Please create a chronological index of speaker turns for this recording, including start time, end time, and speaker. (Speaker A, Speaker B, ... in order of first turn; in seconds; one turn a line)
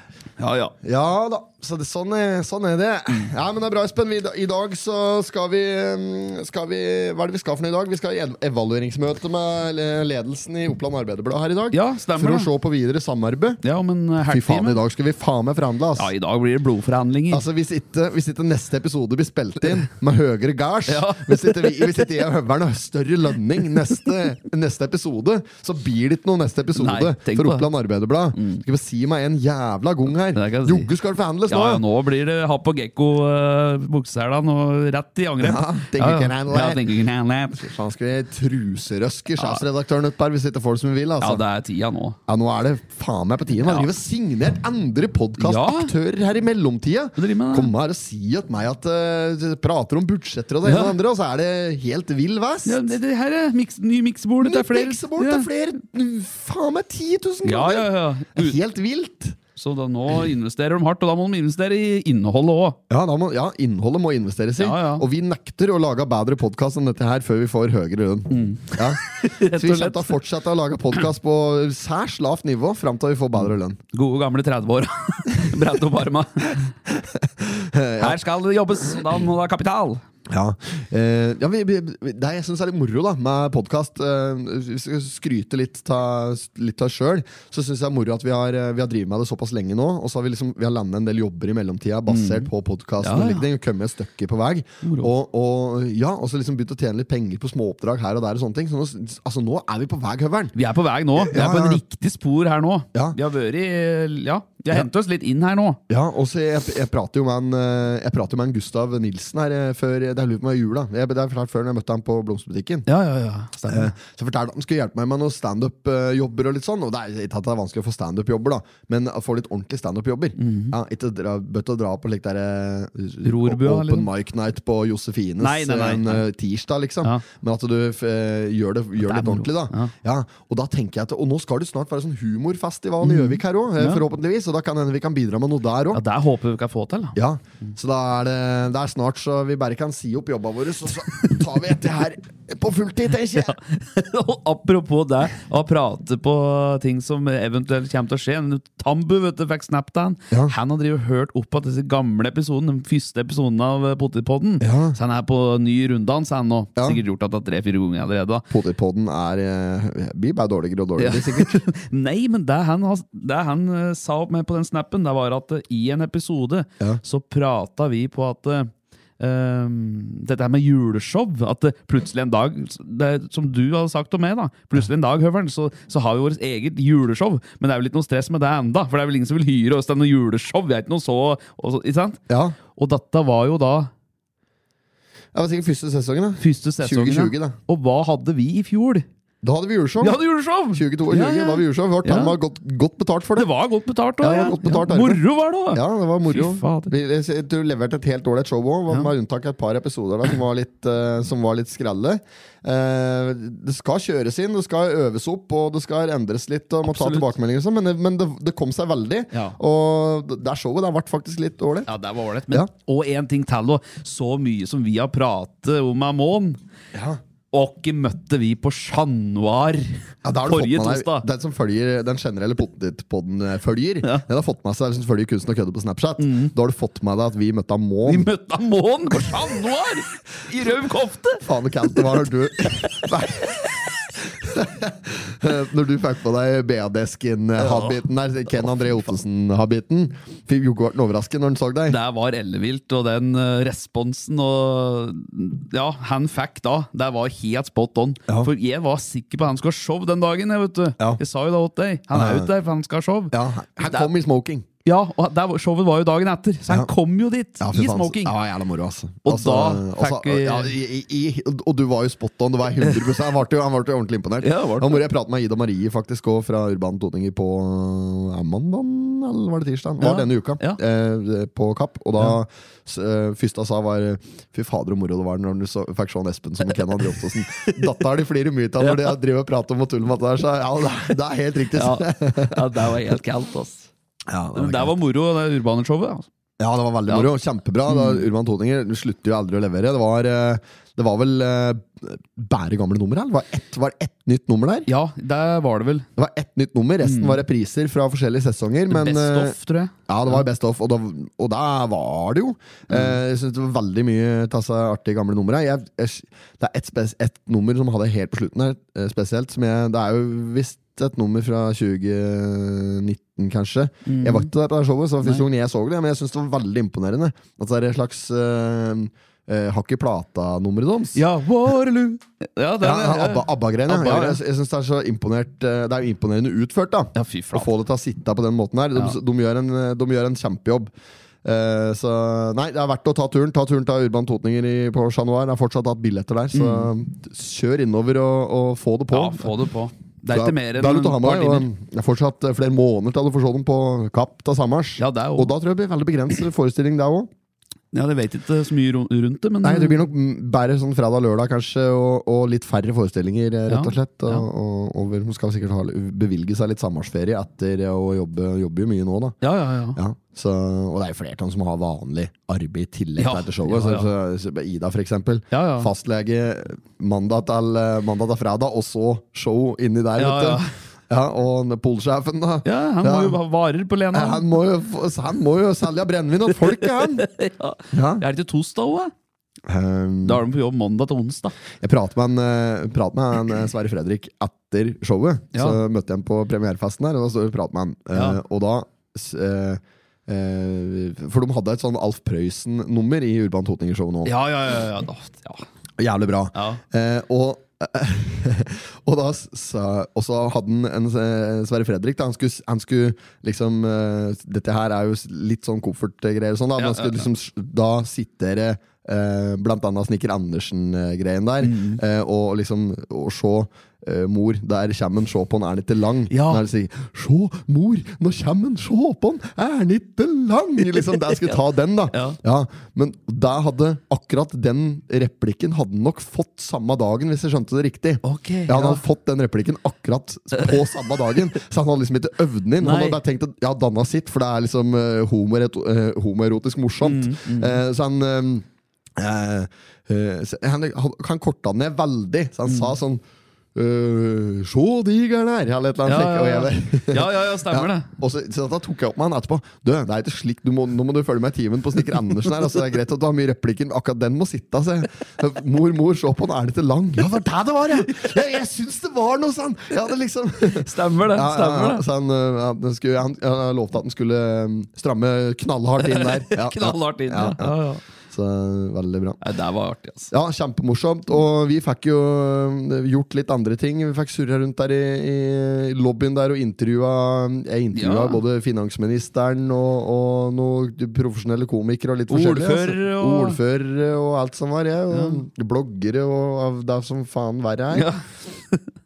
Speaker A: 0.4-0.8
Speaker B: 0.8-13.6
Speaker A: 11.7-12.5
Speaker A: 13.6-14.8
Speaker B: 14.3-16.1
Speaker A: 15.9-17.4
Speaker B: 17.3-31.8
Speaker A: 20.9-22.0
Speaker A: 26.7-27.7
Speaker A: 28.3-28.6
Speaker A: 30.3-30.9
Speaker A: 31.5-37.7
Speaker B: 35.4-36.9
Speaker B: 37.5-41.4
Speaker A: 39.4-39.6
Speaker A: 41.2-42.2
Speaker B: 42.3-52.9
Speaker A: 43.6-43.9
Speaker A: 45.4-45.9
Speaker A: 47.2-47.7
Speaker A: 50.6-51.0
Speaker A: 52.6-55.5
Speaker B: 54.4-59.4
Speaker A: 57.4-58.6
Speaker A: 59.5-62.8
Speaker B: 62.9-73.8
Speaker A: 64.6-65.0
Speaker A: 68.3-70.2
Speaker A: 73.9-76.7
Speaker B: 77.0-78.2
Speaker A: 78.0-80.0
Speaker B: 80.3-100.5
Speaker A: 92.1-92.5
Speaker A: 93.0-93.4
Speaker A: 94.8-95.1
Speaker A: 100.5-105.8
Speaker B: 101.2-101.8
Speaker B: 105.9-112.9
Speaker A: 112.9-113.9
Speaker B: 113.6-136.0
Speaker A: 120.4-120.7
Speaker A: 123.2-124.1
Speaker A: 125.4-126.2
Speaker A: 129.0-129.9
Speaker A: 133.0-134.0
Speaker A: 135.9-137.2
Speaker B: 137.2-143.6
Speaker A: 143.3-158.4
Speaker B: 154.6-155.0
Speaker B: 156.8-157.0
Speaker B: 158.5-161.6
Speaker A: 161.0-183.9
Speaker B: 182.3-182.6
Speaker B: 185.3-187.6
Speaker A: 186.4-189.1
Speaker B: 189.4-190.2
Speaker A: 190.0-192.4
Speaker B: 190.7-193.5
Speaker A: 193.3-196.9
Speaker B: 194.2-211.9
Speaker A: 206.8-207.3
Speaker A: 209.3-209.6
Speaker A: 211.9-216.6
Speaker B: 216.9-217.2
Speaker A: 217.5-221.2
Speaker B: 220.2-228.3
Speaker A: 226.2-226.5
Speaker A: 228.1-232.2
Speaker B: 231.4-233.5
Speaker A: 232.7-233.8
Speaker B: 234.4-242.0
Speaker A: 237.6-238.1
Speaker A: 241.9-254.1
Speaker B: 252.1-252.5
Speaker B: 253.3-254.7
Speaker A: 254.8-258.3
Speaker B: 257.6-282.8
Speaker A: 259.2-260.7
Speaker A: 262.8-263.2
Speaker A: 264.4-265.0
Speaker A: 270.0-270.8
Speaker A: 278.8-279.1
Speaker A: 281.7-283.9
Speaker B: 284.3-284.9
Speaker A: 284.5-286.3
Speaker B: 286.6-294.9
Speaker A: 287.1-287.3
Speaker A: 287.9-288.3
Speaker A: 294.9-296.1
Speaker B: 296.2-299.6
Speaker A: 297.0-297.4
Speaker A: 298.9-300.4
Speaker B: 300.1-321.2
Speaker A: 302.9-303.2
Speaker A: 314.1-314.5
Speaker A: 321.1-324.4
Speaker B: 322.8-330.9
Speaker A: 327.1-327.7
Speaker B: 331.4-339.5
Speaker A: 336.5-336.9
Speaker A: 339.1-341.7
Speaker B: 340.3-347.3
Speaker A: 345.0-345.5
Speaker A: 347.9-350.0
Speaker B: 349.6-359.4
Speaker A: 353.7-354.4
Speaker A: 359.4-360.0
Speaker B: 359.9-373.4
Speaker A: 363.2-364.1
Speaker A: 365.5-365.9
Speaker A: 370.2-370.7
Speaker A: 372.6-374.4
Speaker B: 374.1-377.3
Speaker A: 376.5-379.1
Speaker B: 377.9-378.2
Speaker B: 379.7-380.4
Speaker A: 380.2-381.6
Speaker B: 381.8-394.3
Speaker A: 385.5-385.8
Speaker A: 388.1-388.4
Speaker A: 394.2-395.6
Speaker B: 396.0-438.6
Speaker A: 396.5-396.8
Speaker A: 406.8-407.3
Speaker A: 411.6-412.0
Speaker A: 416.3-416.6
Speaker A: 428.2-429.0
Speaker A: 432.8-433.2
Speaker A: 437.0-437.8
Speaker B: 439.2-443.2
Speaker A: 442.6-442.9
Speaker B: 443.7-467.8
Speaker A: 446.1-448.1
Speaker A: 457.9-458.4
Speaker A: 460.6-462.0
Speaker A: 466.0-468.0
Speaker B: 468.3-469.4
Speaker A: 469.4-470.3
Speaker B: 470.3-488.1
Speaker A: 477.9-478.4
Speaker A: 482.3-483.6
Speaker A: 485.1-485.4
Speaker A: 487.9-488.8